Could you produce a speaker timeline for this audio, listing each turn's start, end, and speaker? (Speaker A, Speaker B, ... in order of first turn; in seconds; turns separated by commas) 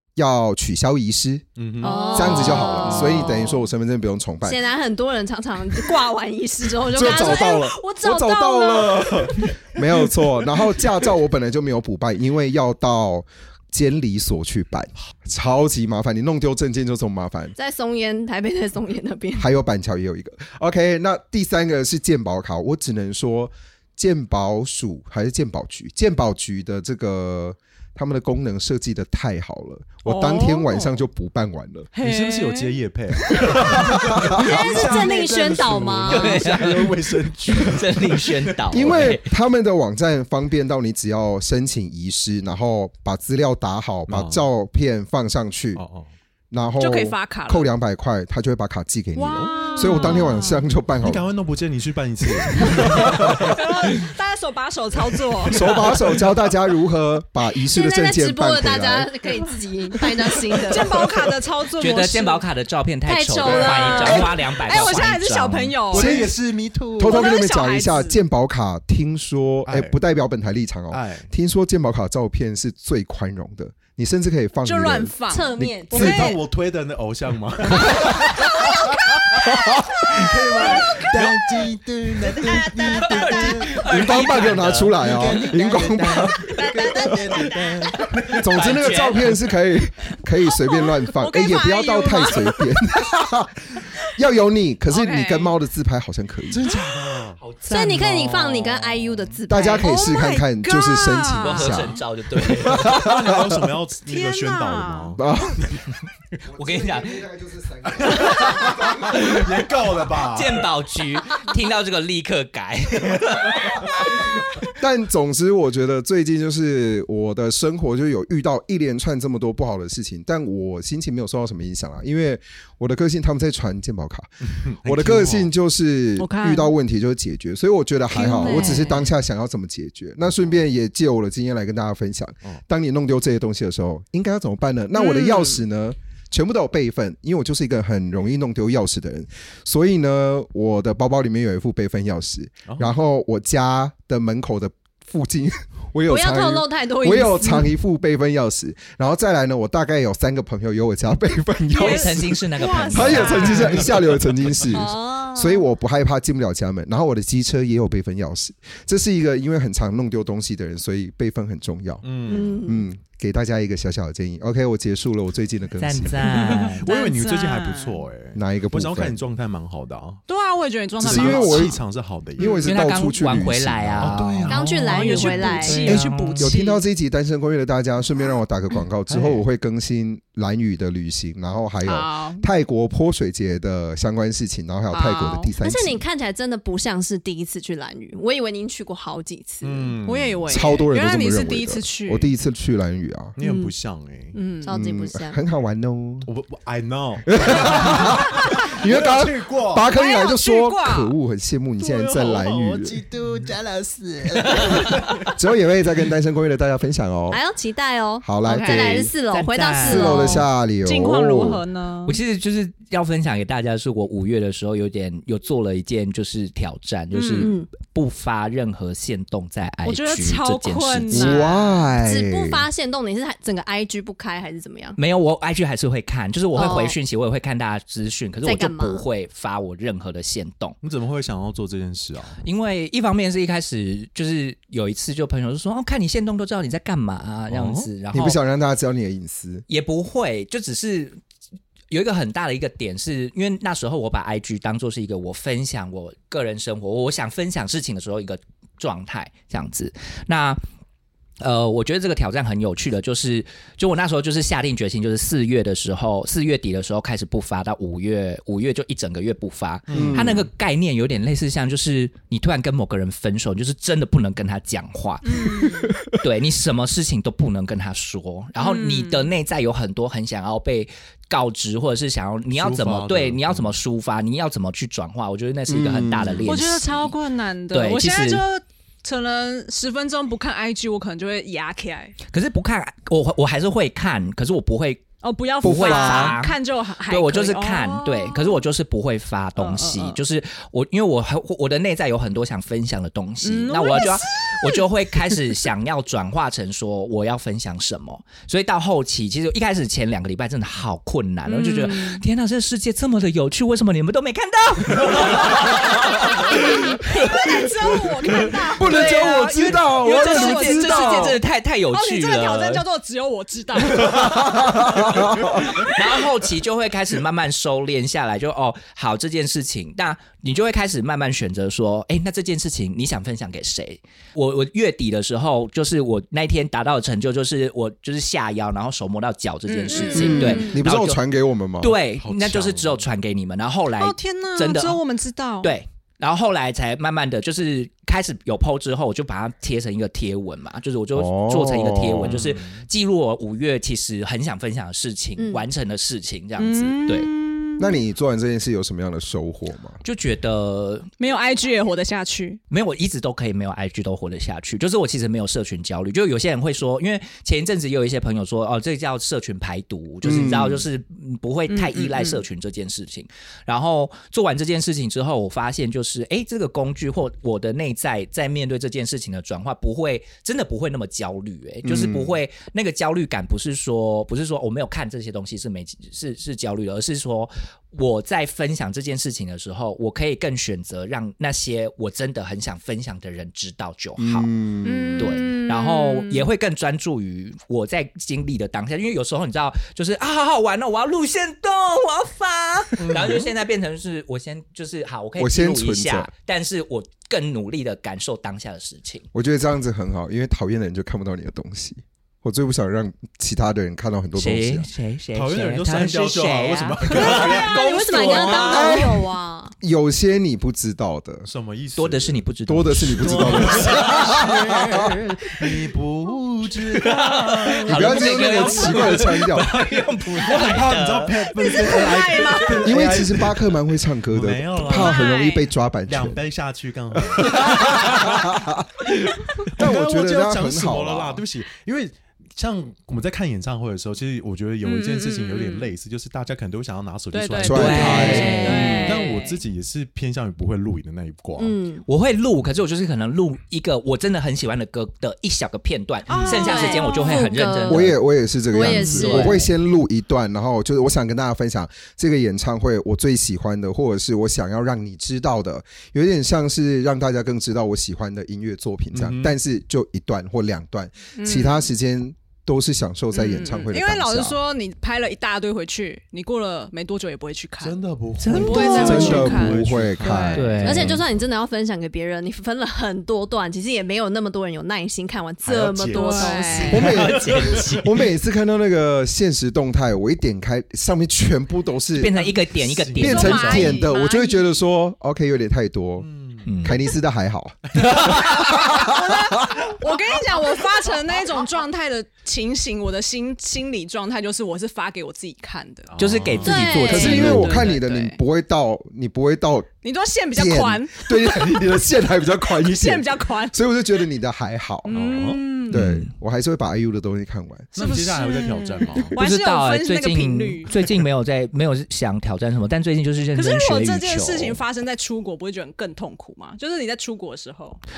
Speaker A: 0.1-4.6, Speaker B: 1.6-3.4, Speaker C: 1.8-3.6, Speaker D: 1.8-2.9, Speaker C: 4.4-9.5, Speaker A: 6.9-17.5, Speaker C: 17.6-19.5, Speaker A: 19.3-31.9, Speaker D: 30.0-31.0, Speaker D: 31.9-32.8, Speaker B: 32.0-39.1, Speaker A: 33.4-34.9, Speaker C: 34.4-36.5, Speaker E: 36.1-39.3, Speaker A: 38.7-45.8, Speaker B: 44.1-44.5, Speaker B: 45.7-46.1, Speaker A: 46.5-51.3, Speaker D: 46.8-47.7, Speaker D: 49.2-50.6, Speaker B: 49.8-50.3, Speaker B: 51.0-53.9, Speaker A: 52.9-53.5, Speaker D: 53.5-55.7, Speaker B: 55.4-56.3, Speaker A: 55.5-59.1, Speaker C: 57.7-61.0, Speaker D: 60.7-62.4, Speaker E: 61.8-65.8, Speaker C: 63.0-65.0, Speaker D: 63.4-66.2, Speaker B: 65.9-66.9, Speaker A: 65.9-66.3, Speaker F: 66.0-67.2, Speaker A: 67.0-76.3, Speaker D: 67.0-68.2, Speaker B: 69.6-70.0, Speaker B: 70.9-71.3, Speaker D: 74.6-76.4, Speaker C: 75.3-76.3, Speaker B: 75.9-79.5, Speaker A: 79.4-80.2, Speaker B: 80.1-83.0, Speaker F: 81.0-83.8, Speaker E: 82.9-85.2, Speaker A: 83.8-86.5, Speaker F: 85.0-88.0, Speaker D: 86.6-87.0, Speaker C: 86.7-87.1, Speaker B: 87.5-88.5, Speaker E: 88.2-89.3, Speaker A: 88.3-96.7, Speaker D: 90.5-92.8, Speaker D: 94.9-95.5, Speaker B: 96.5-97.4, Speaker E: 97.4-99.3, Speaker C: 97.7-100.2, Speaker A: 99.5-103.7, Speaker D: 99.8-101.9, Speaker E: 101.4-103.0, Speaker B: 102.9-105.8, Speaker D: 104.1-105.1, Speaker A: 105.2-105.7, Speaker A: 106.5-109.4, Speaker E: 106.5-107.2, Speaker B: 107.9-110.7, Speaker E: 108.1-109.4, Speaker E: 110.2-114.5, Speaker A: 114.8-166.3, Speaker B: 124.4-125.5, Speaker D: 126.2-126.7, Speaker D: 128.1-129.1, Speaker C: 128.3-128.9, Speaker D: 134.9-135.6, Speaker B: 142.7-142.9, Speaker C: 146.1-147.7, Speaker E: 151.7-153.8, Speaker D: 151.7-153.8, Speaker B: 153.6-154.0, Speaker C: 154.7-155.6, Speaker B: 162.0-162.6, Speaker C: 162.2-162.9, Speaker E: 165.8-166.8, Speaker B: 166.2-170.2, Speaker D: 166.8-168.1, Speaker A: 168.3-169.2, Speaker D: 170.3-171.8, Speaker B: 171.0-172.7, Speaker A: 171.0-171.8, Speaker A: 172.3-174.3, Speaker D: 172.4-172.7, Speaker E: 172.6-176.6, Speaker B: 174.0-174.9, Speaker C: 174.5-175.9, Speaker D: 174.8-176.8, Speaker A: 175.8-186.0, Speaker B: 179.1-179.4, Speaker D: 181.8-182.4, Speaker D: 184.9-185.5, Speaker C: 185.6-190.0, Speaker B: 189.6-190.6, Speaker D: 190.0-192.3, Speaker A: 190.5-193.3, Speaker B: 193.4-194.4, Speaker C: 193.4-193.7, Speaker D: 194.3-194.7, Speaker C: 194.6-195.4, Speaker A: 194.7-196.3, Speaker B: 196.2-199.9, Speaker A: 197.3-203.0, Speaker D: 199.9-201.1, Speaker B: 201.9-202.5, Speaker F: 201.9-204.9, Speaker B: 204.7-205.2, Speaker A: 205.3-207.4, Speaker C: 207.3-210.5, Speaker A: 208.2-209.1, Speaker D: 208.5-209.0, Speaker E: 209.1-210.4, Speaker A: 209.8-211.6, Speaker D: 210.8-212.2, Speaker E: 212.1-221.4, Speaker D: 217.1-217.5, Speaker C: 217.4-217.7, Speaker D: 219.8-221.6, Speaker A: 221.1-222.7, Speaker C: 221.9-225.0, Speaker E: 225.0-230.8, Speaker C: 226.5-227.0, Speaker C: 228.4-229.1, Speaker B: 230.8-232.4, Speaker E: 232.4-238.4, Speaker B: 237.5-237.9, Speaker A: 238.1-239.6, Speaker E: 239.7-241.2, Speaker E: 241.9-250.6, Speaker E: 251.4-265.6, Speaker B: 259.9-260.4, Speaker A: 259.9-260.4, Speaker D: 265.2-265.9, Speaker A: 265.6-266.1, Speaker E: 266.2-277.1, Speaker D: 268.6-269.3, Speaker B: 272.5-273.8, Speaker A: 275.7-276.5, Speaker D: 276.4-282.1, Speaker E: 277.7-278.4, Speaker E: 282.3-285.1, Speaker D: 285.2-288.6, Speaker E: 285.6-306.6, Speaker A: 285.6-286.4, Speaker D: 289.6-290.2, Speaker D: 293.4-295.4, Speaker D: 301.4-302.2, Speaker D: 306.2-314.5, Speaker A: 307.8-311.4, Speaker E: 308.8-312.8, Speaker A: 313.9-315.7, Speaker E: 315.8-331.2, Speaker D: 329.7-330.8, Speaker C: 329.9-330.7, Speaker A: 330.1-331.9, Speaker E: 331.8-335.0, Speaker B: 332.1-333.1, Speaker D: 334.0-335.7, Speaker E: 335.6-347.3, Speaker A: 341.1-342.4, Speaker B: 342.2-342.9, Speaker C: 345.4-345.6, Speaker D: 346.6-348.0, Speaker A: 347.8-350.0, Speaker E: 350.0-351.1, Speaker D: 351.2-352.6, Speaker E: 352.7-384.5, Speaker A: 360.2-360.9, Speaker D: 361.7-362.4, Speaker A: 371.8-372.3, Speaker A: 384.2-385.4, Speaker D: 384.8-386.5, Speaker E: 385.1-399.3, Speaker B: 393.0-393.5, Speaker A: 395.4-396.3, Speaker A: 399.3-404.9, Speaker E: 404.3-409.0, Speaker B: 405.3-407.9, Speaker C: 407.2-409.7, Speaker D: 408.1-408.8, Speaker A: 408.7-409.2, Speaker A: 409.8-411.5, Speaker B: 411.4-412.4, Speaker E: 411.9-414.4, Speaker A: 412.7-415.1, Speaker B: 413.1-414.4, Speaker C: 414.4-415.0, Speaker B: 415.4-419.2, Speaker E: 416.9-421.5, Speaker A: 417.9-419.7, Speaker B: 420.3-425.4, Speaker D: 421.6-423.1, Speaker A: 422.8-426.4, Speaker D: 424.8-425.7, Speaker B: 426.1-428.5, Speaker A: 427.3-428.9, Speaker B: 429.6-441.8, Speaker A: 429.6-431.4, Speaker D: 434.8-435.9, Speaker D: 437.3-439.6, Speaker A: 437.6-438.7, Speaker E: 437.6-439.1, Speaker C: 438.5-439.2, Speaker C: 441.6-442.0, Speaker E: 442.1-448.2, Speaker D: 446.3-447.4, Speaker C: 446.4-448.2, Speaker A: 447.9-464.6, Speaker C: 448.7-449.6, Speaker D: 448.9-449.3, Speaker E: 449.1-449.7, Speaker B: 459.1-459.6, Speaker D: 461.4-461.9, Speaker D: 463.3-468.0, Speaker B: 467.8-471.2, Speaker E: 468.4-469.3, Speaker D: 468.5-470.8, Speaker A: 468.6-471.1, Speaker E: 470.5-471.2, Speaker C: 470.8-477.1, Speaker B: 475.6-478.2, Speaker D: 476.1-477.1, Speaker E: 476.9-478.0, Speaker A: 476.9-482.5, Speaker E: 482.1-484.1, Speaker B: 482.4-483.9, Speaker A: 483.1-486.3, Speaker D: 483.2-484.8, Speaker B: 486.2-486.9, Speaker E: 486.6-486.9, Speaker A: 486.8-489.8, Speaker B: 487.9-488.2, Speaker D: 488.4-496.1, Speaker B: 496.1-497.9, Speaker E: 496.2-497.9, Speaker C: 496.6-497.6, Speaker D: 497.0-498.4, Speaker A: 497.0-499.9, Speaker D: 500.0-501.8, Speaker A: 500.5-505.1, Speaker D: 502.7-503.8, Speaker D: 505.1-506.0, Speaker B: 505.1-505.7, Speaker A: 505.9-507.9, Speaker E: 505.9-506.3, Speaker B: 507.9-509.4, Speaker D: 507.9-510.9, Speaker E: 509.3-514.8, Speaker D: 513.5-518.0